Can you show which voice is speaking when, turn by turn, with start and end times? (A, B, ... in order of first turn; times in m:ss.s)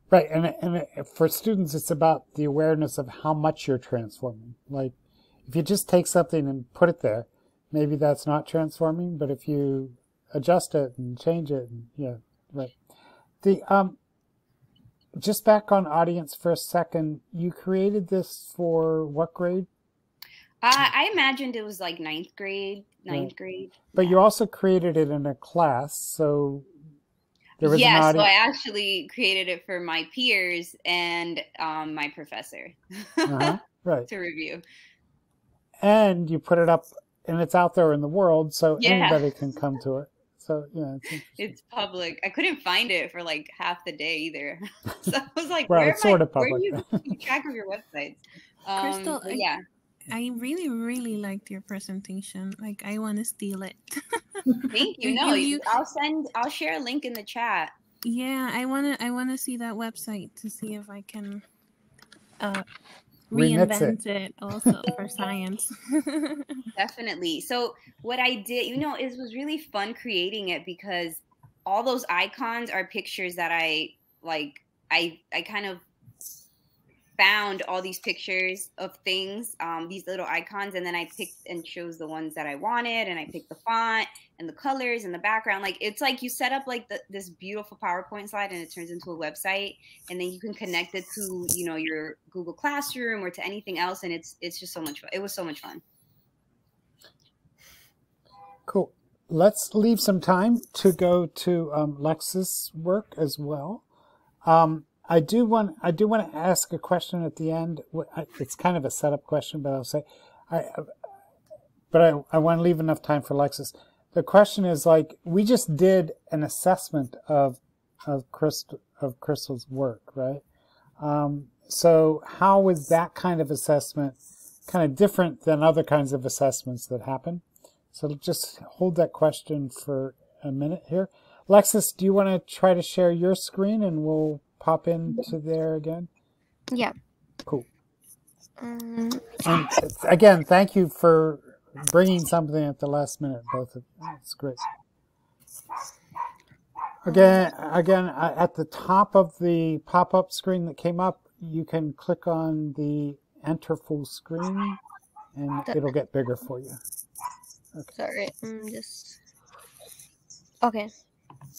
0:00.1-0:04.9 A
0:05.4-0:12.7 A
0:13.4-0:14.0 A
0:15.2-0:19.7 A
0:20.6-0:24.2 B
0:23.9-0:26.7 A
0:27.6-0:28.3 A
0:27.6-0:33.6 B
0:33.2-0:34.1 A
0:34.1-0:34.6 B
0:35.8-0:41.2 A
0:38.8-0:39.2 B
0:41.4-0:49.6 B
0:45.7-0:47.1 A
0:48.8-0:49.4 C
0:50.1-0:55.7 C
0:54.7-0:57.7 B
0:58.0-1:01.4 C
1:02.4-1:02.6 C
1:03.3-1:06.6 C
1:03.3-1:04.0 A
1:06.7-1:15.8 B
1:17.2-1:35.8 B
1:38.7-1:43.8 A
1:44.4-1:50.9 A
1:51.9-2:00.4 A
2:01.0-2:16.1 A
2:18.6-2:19.6 D
2:19.4-2:24.7 A
2:27.0-2:34.8 A
2:27.1-2:27.4 D
2:35.3-2:36.8 A
2:38.0-2:39.2 D
2:40.6-2:40.9 D